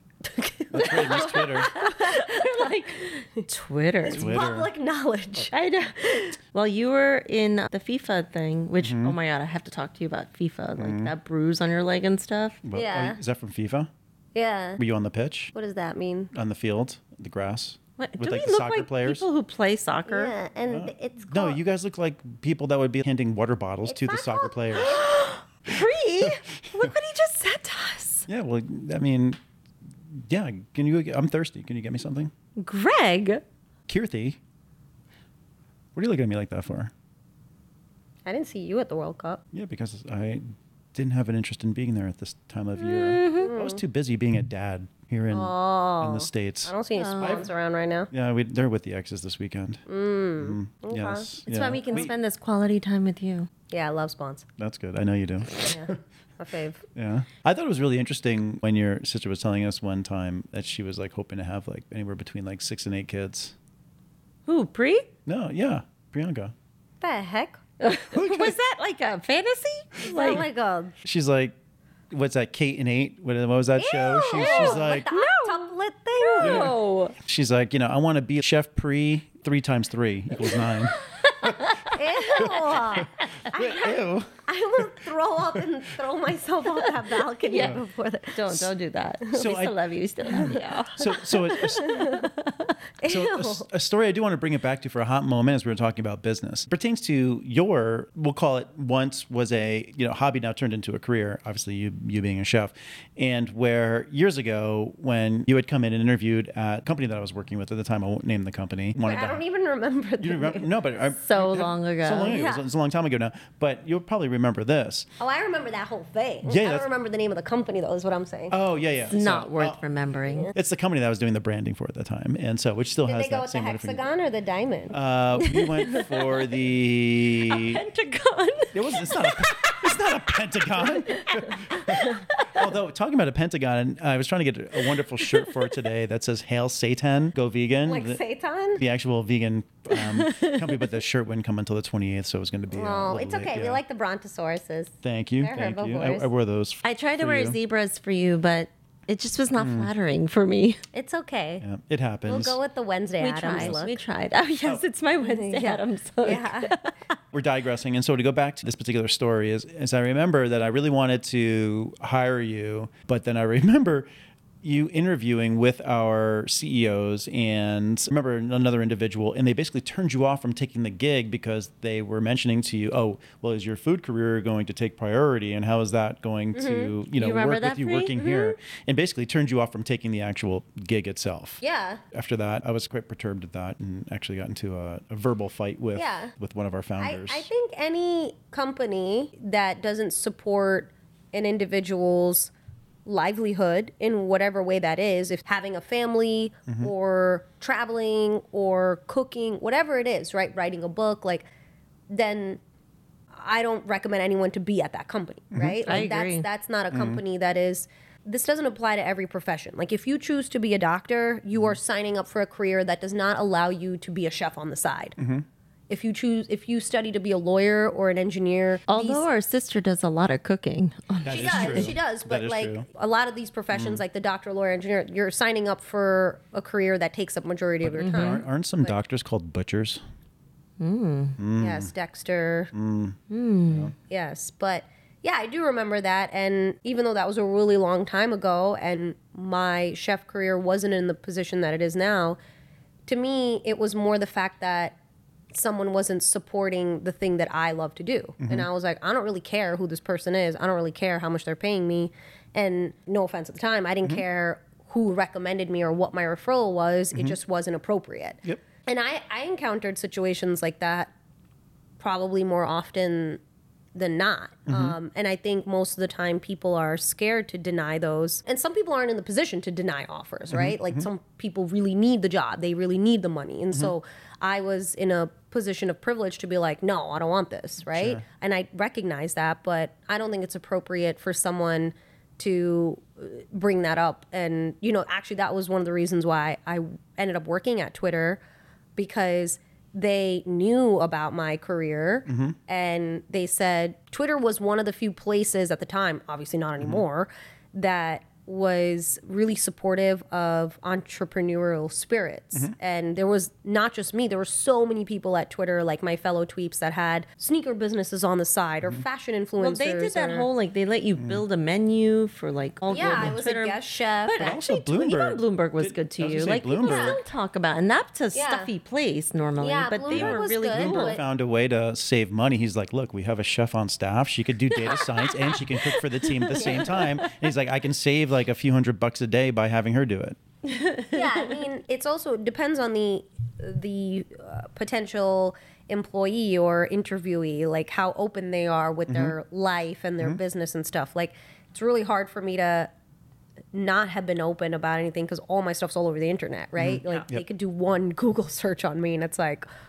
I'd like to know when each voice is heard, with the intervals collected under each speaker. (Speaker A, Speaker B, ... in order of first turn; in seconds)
Speaker A: 0.3-3.4, 4.1-5.5, 12.7-13.2, 14.3-14.8, 15.5-16.3, 20.1-21.6, 23.9-24.6, 38.2-39.4, 43.4-43.8, 45.3-48.1, 49.9-51.3, 53.7-54.4, 55.6-56.8, 67.0-67.6, 70.0-70.9, 73.8-76.7, 81.7-88.6, 90.4-92.3, 93.0-93.7, 109.0-110.7, 112.3-112.6, 115.2-118.5, 120.3-120.5, 123.0-124.9, 137.8-138.8, 142.7-146.3, 150.9-151.6, 152.2-154.0, 155.2-156.7, 176.5-176.9, 181.6-182.0, 185.9-186.3, 187.0-192.5, 193.1-201.5, 202.1-202.6, 203.3-215.2, 215.9-219.2, 221.3-228.9, 231.5-232.7, 234.1-242.4, 243.1-244.9, 245.5-261.1, 262.0-263.4, 263.9-288.4, 288.9-310.4, 312.9-314.6, 316.8-317.2, 318.3-318.7, 319.6-321.2, 326.6-326.8, 331.1-342.9, 343.7-349.7
Speaker B: 0.7-1.7, 4.1-4.7, 8.8-9.2, 10.8-11.1, 12.6-13.9, 14.8-15.5, 16.3-19.3, 20.7-25.0, 25.7-26.9, 28.3-29.4, 30.0-32.3, 33.9-34.4, 35.9-36.9, 39.5-47.5, 48.1-49.8, 50.4-52.1, 54.6-56.0, 56.9-63.5, 65.2-66.5, 68.1-68.6, 71.0-71.5, 72.1-75.0, 76.4-81.7, 82.3-84.8, 89.3-89.8, 90.3-92.1, 93.0-109.4, 110.2-115.1, 116.5-116.9, 118.5-119.8, 120.5-124.0, 124.9-127.8, 128.7-138.2, 138.8-143.8, 145.0-147.6, 149.6-149.9, 151.6-152.6, 153.5-153.8, 157.3-164.1, 164.6-181.6, 182.1-187.5, 196.7-196.9, 205.5-205.8, 206.9-207.2, 215.2-215.4, 221.2-222.8, 223.7-224.0, 227.8-230.0, 231.4-231.9, 232.7-233.2, 233.7-233.9, 248.4-248.7, 264.7-265.0, 270.5-271.1, 277.9-278.2, 292.3-292.6, 296.8-297.0, 311.2-311.4, 313.0-313.4, 314.4-317.2, 320.1-330.4, 339.1-339.3, 346.8-347.4
Speaker C: 0.7-4.4, 5.5-12.6, 18.0-20.3, 24.7-28.3, 32.6-33.4, 42.8-43.5, 46.9-47.5, 51.5-53.5, 64.5-65.1, 67.8-70.5, 74.3-75.7, 76.2-77.1, 80.7-83.1, 87.4-87.8, 88.3-92.7, 111.2-112.4, 119.1-120.5, 125.8-126.2, 127.5-132.6, 135.2-135.8, 139.9-140.8, 146.8-150.8, 153.2-156.9, 177.2-178.2, 205.8-206.4, 218.9-221.9, 228.0-228.4, 230.8-231.4, 233.3-233.9, 309.6-321.2, 324.7-327.4, 330.6-331.6